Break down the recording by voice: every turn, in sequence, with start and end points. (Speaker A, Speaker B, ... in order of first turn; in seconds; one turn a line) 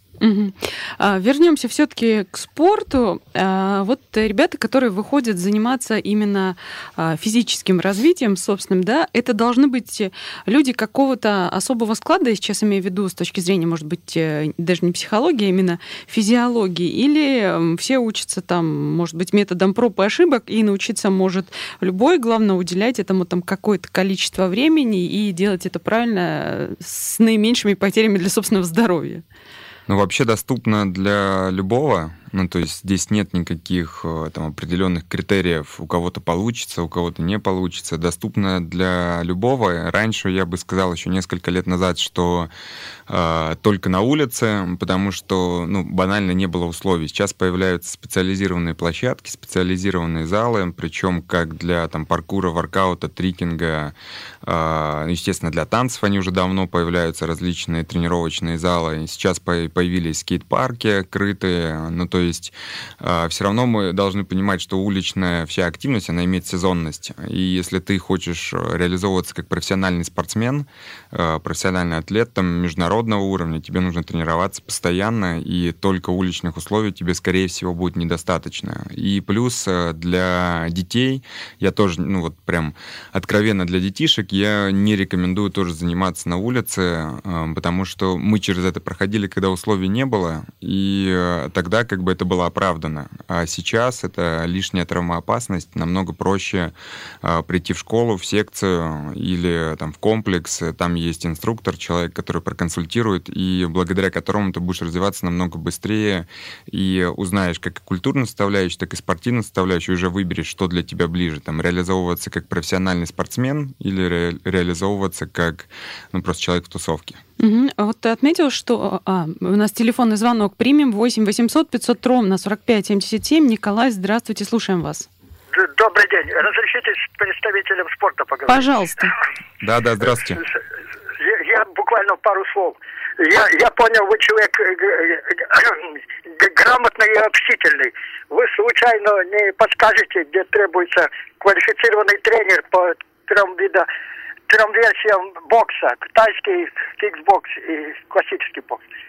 Speaker A: 0.2-29.2
Speaker B: 29.9-42.5
Speaker B: 43.1-117.2
Speaker A: 117.4-125.1
Speaker C: 125.5-128.7
Speaker A: 128.5-129.1
Speaker B: 129.6-130.4
Speaker C: 131.2-143.9
Speaker C: 144.5-148.9